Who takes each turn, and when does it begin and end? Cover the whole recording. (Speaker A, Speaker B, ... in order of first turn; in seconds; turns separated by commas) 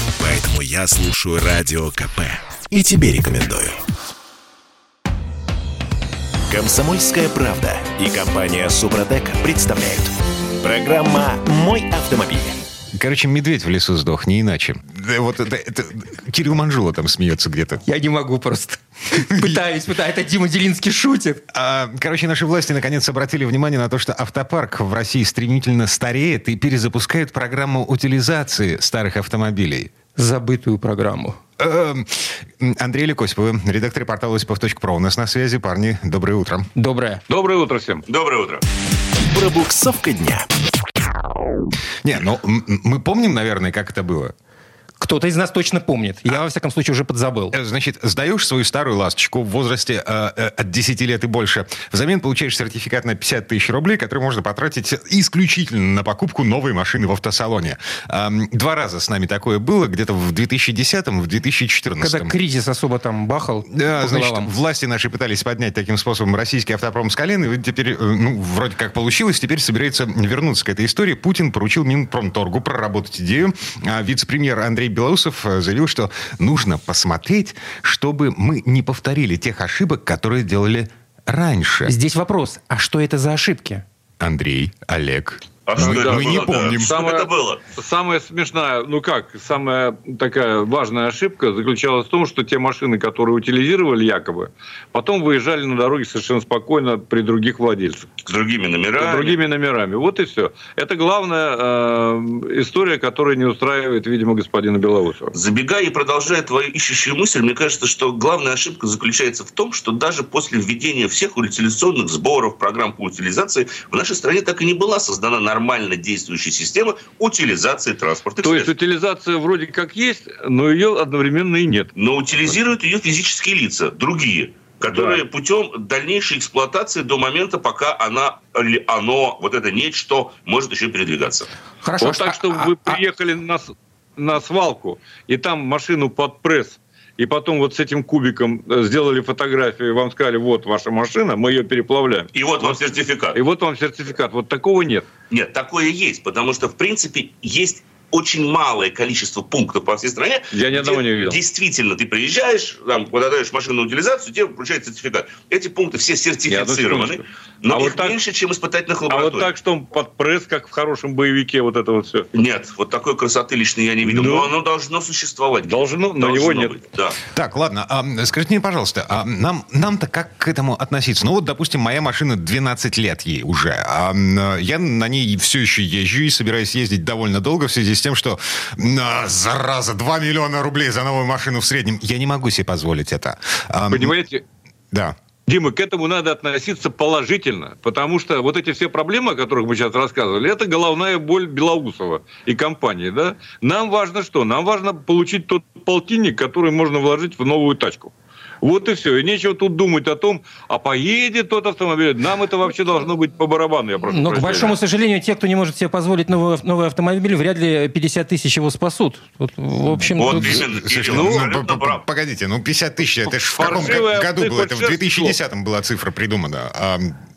Speaker A: 0.2-3.8, Speaker A: 6.5-12.6, Speaker B: 12.9-17.8, Speaker C: 17.9-21.4, Speaker B: 21.5-29.9, Speaker C: 30.2-31.4, Speaker B: 31.6-36.7, Speaker C: 36.8-37.2, Speaker D: 37.3-38.0, Speaker E: 38.1-38.6, Speaker A: 39.3-40.5, Speaker B: 42.0-44.3, Speaker C: 45.0-47.5, Speaker B: 47.5-62.3, Speaker C: 62.0-64.5, Speaker B: 63.7-81.9, Speaker C: 81.9-83.8, Speaker B: 84.2-86.9, Speaker E: 85.7-87.6, Speaker D: 85.8-98.1, Speaker E: 98.2-99.4, Speaker D: 99.0-105.3, Speaker E: 105.3-118.7, Speaker D: 118.4-121.9, Speaker E: 122.0-131.5, Speaker D: 124.8-125.2, Speaker C: 131.8-133.0, Speaker D: 132.0-142.8, Speaker E: 142.3-143.4, Speaker D: 143.3-145.1, Speaker E: 145.3-159.5, Speaker D: 150.5-151.4, Speaker D: 156.5-158.2, Speaker D: 159.1-162.3, Speaker E: 162.3-167.2, Speaker D: 164.1-164.5, Speaker D: 165.6-166.8, Speaker B: 167.3-184.2, Speaker D: 183.9-184.4, Speaker D: 185.5-204.8, Speaker C: 204.1-210.6, Speaker E: 210.2-212.0, Speaker B: 210.3-217.2, Speaker D: 211.1-211.4, Speaker D: 213.2-215.4, Speaker E: 213.6-213.9